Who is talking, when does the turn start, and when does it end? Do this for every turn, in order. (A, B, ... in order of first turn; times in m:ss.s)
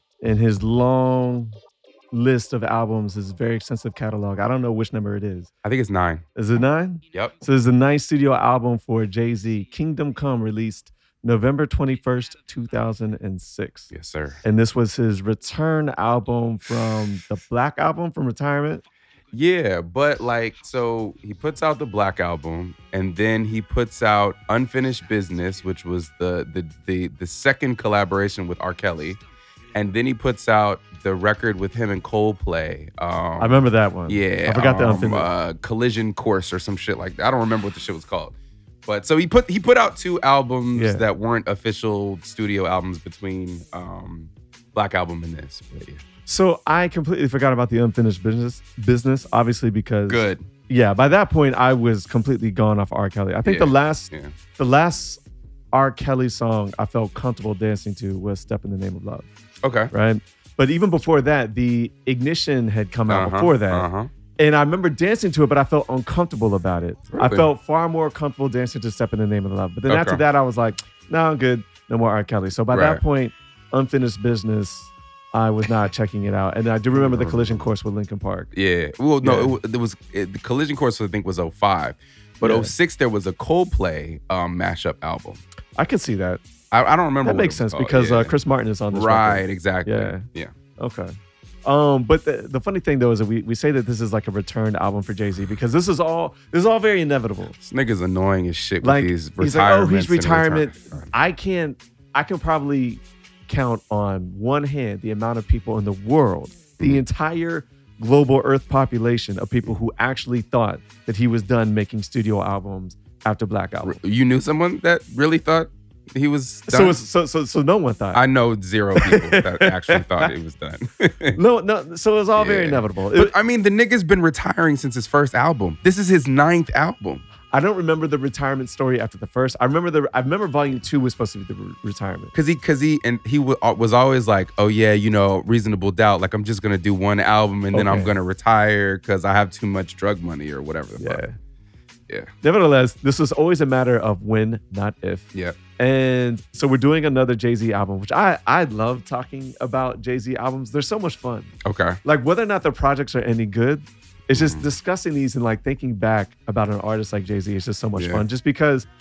0:00.2-0:01.6 A
0:02.1-0:05.5 A
0:05.6-0:06.2 B
0:06.4-0:13.9 A
0:13.9-0:14.4 B
0:14.4-0:18.8 A
0:19.3-0:29.2 B
0:29.7-0:33.5 B
0:33.4-0:35.3 A
0:34.1-0:38.3 B
0:38.8-0:46.0 B
0:40.7-0:41.0 A
0:46.2-0:55.2 A
0:50.1-0:50.5 B
0:53.4-0:54.3 B
0:55.7-0:59.3 A
0:59.6-0:59.9 B
0:59.9-1:18.5 A
1:03.1-1:04.1 B
1:07.1-1:07.5 B
1:09.9-1:10.2 B
1:12.7-1:13.0 B
1:16.9-1:17.6 B
1:18.5-1:25.4 B
1:19.2-1:19.6 A
1:22.4-1:22.7 A
1:25.8-1:26.4 A
1:26.7-1:28.3 B
1:27.2-1:30.3 A
1:28.9-1:30.5 B
1:30.8-1:37.5 A
1:37.6-1:41.1 B
1:38.8-1:54.0 A
1:53.8-1:57.0 B
1:56.7-1:58.2 A
1:58.1-2:01.4 B
1:58.9-2:00.3 A
2:01.3-2:03.3 A
2:02.4-2:07.2 B
2:07.5-2:12.3 A
2:12.3-2:21.2 B
2:17.7-2:18.1 A
2:21.0-2:21.4 A
2:22.4-2:31.5 A
2:31.6-2:32.0 B
2:32.0-2:38.9 A
2:34.3-2:34.6 B
2:38.0-2:38.2 B